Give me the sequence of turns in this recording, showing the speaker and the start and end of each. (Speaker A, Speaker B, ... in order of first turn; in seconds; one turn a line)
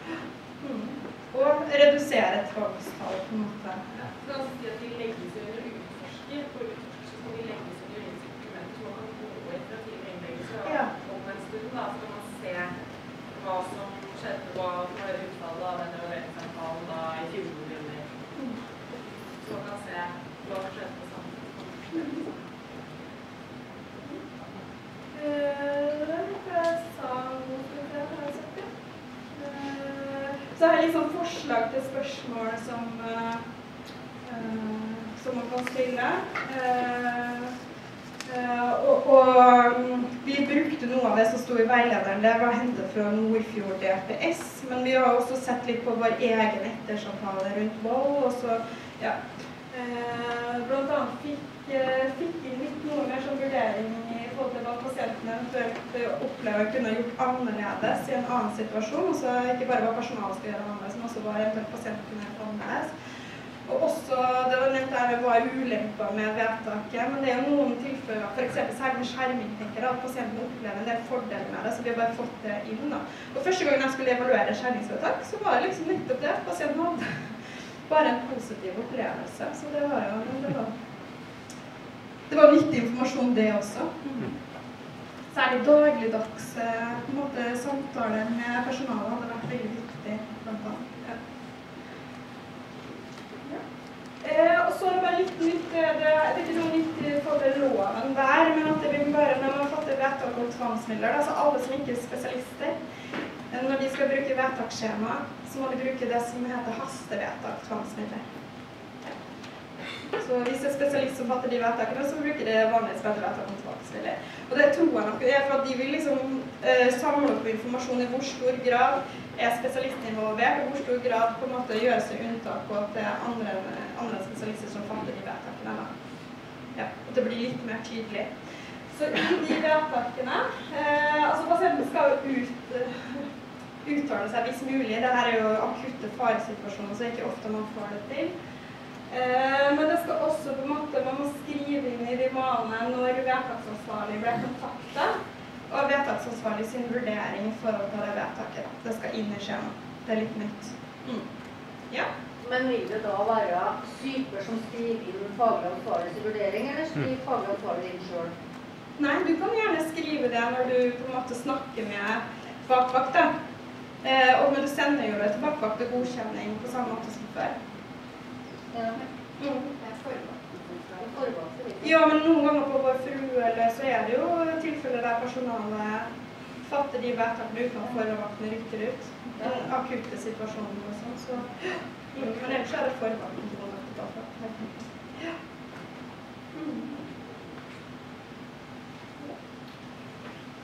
Speaker A: 0.6-3.8
Speaker B: 3.9-12.7
Speaker B: 13.3-18.1
Speaker B: 19.4-22.4
Speaker A: 25.1-28.7
Speaker A: 29.4-33.4
Speaker A: 34.2-37.5
Speaker A: 38.2-49.2
Speaker A: 49.7-62.9
Speaker A: 63.6-77.2
Speaker A: 77.9-80.7
Speaker A: 82.3-84.3
Speaker A: 85.3-91.2
Speaker A: 94.2-102.7
Speaker A: 103.5-108.2
Speaker A: 110.2-125.9
Speaker A: 126.7-128.3
Speaker A: 128.9-133.2
Speaker A: 133.8-138.3
Speaker A: 139.1-145.1
Speaker A: 145.7-151.2
Speaker C: 152.4-158.3
Speaker A: 159.0-163.3
Speaker A: 164.0-167.5
Speaker C: 168.7-169.0
Speaker A: 169.4-169.7
Speaker C: 169.8-172.0
Speaker A: 171.8-176.1
Speaker A: 176.6-185.3
Speaker A: 186.5-186.9